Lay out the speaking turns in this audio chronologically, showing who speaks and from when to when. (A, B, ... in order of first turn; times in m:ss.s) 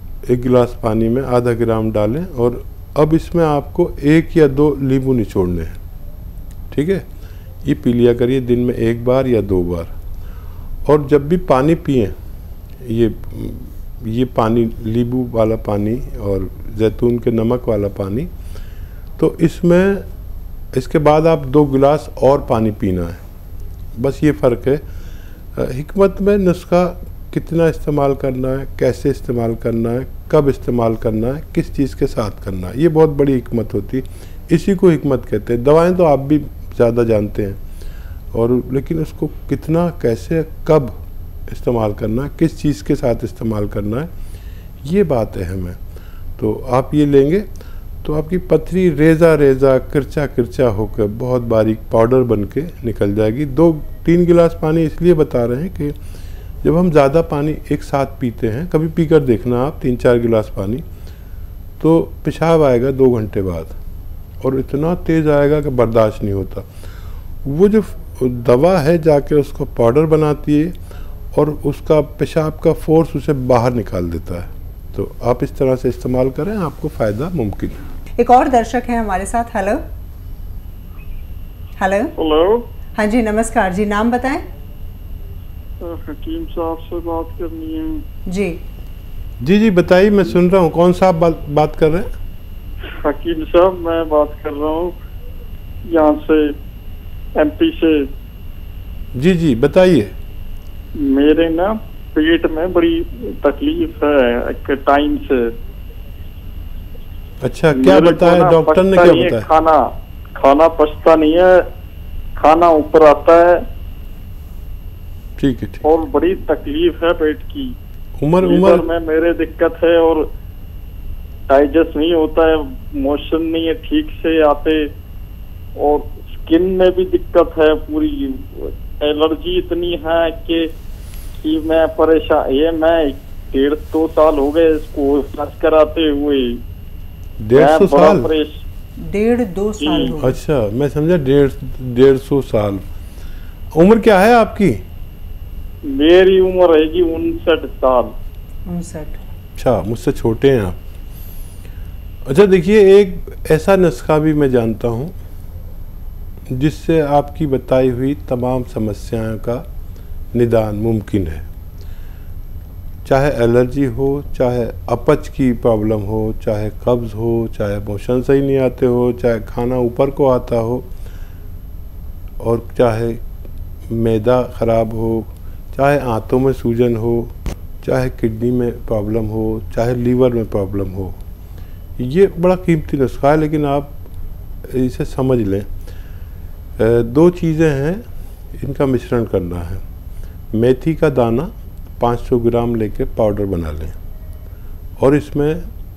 0:00.3-0:05.8 A
0:06.7-0:07.0 A
0:07.6-0:09.9 A
0:10.8-0:12.1 A
0:12.8-0:18.3 A
0:19.2-0:20.0 A
0:20.7-0:23.2 A
0:24.0-0:24.8 A
0:25.5-0:37.6 A
0:38.3-0:40.9 A
0:41.5-0:44.1 A
0:44.8-0:45.8 A
0:46.4-0:47.4 A
0:48.0-0:55.9 A
0:56.6-1:00.8 A
1:01.8-1:03.7 A
1:04.4-1:06.6 A
1:07.4-1:10.7 A
1:11.3-1:17.8 A
1:18.2-1:19.8 B
1:21.8-1:22.1 B
1:22.2-1:22.6 C
1:23.0-1:24.4 B
1:25.8-1:28.0 C
1:28.3-1:28.6 B
1:29.4-1:32.1 A
1:33.0-1:34.9 C
1:35.9-1:36.5 C
1:37.4-1:38.0 C
1:39.1-1:40.1 A
1:41.1-1:45.4 C
1:47.4-1:49.5 A
1:47.8-1:49.8 C
1:50.4-1:51.5 C
1:52.4-1:53.6 C
1:55.4-1:55.8 A
1:55.8-1:57.7 C
1:58.2-1:58.9 A
1:58.4-2:00.3 C
2:01.5-2:04.8 C
2:05.8-2:10.7 C
2:11.4-2:16.6 C
2:17.4-2:18.3 A
2:17.5-2:18.6 C
2:19.0-2:20.4 B
2:19.8-2:20.1 C
2:20.2-2:22.8 A
2:23.7-2:24.8 A
2:25.9-2:28.1 C
2:28.7-2:29.2 B
2:29.6-2:30.8 A
2:32.2-2:35.1 A
2:36.5-2:39.6 A
2:40.3-2:41.4 A
2:43.0-2:50.9 A
2:52.4-2:53.2 A
2:53.9-3:01.2 A
3:02.0-3:03.9 A
3:04.6-3:05.7 A
3:06.8-3:08.0 A
3:08.5-3:09.8 A
3:10.5-3:14.0 A
3:15.0-3:15.6 A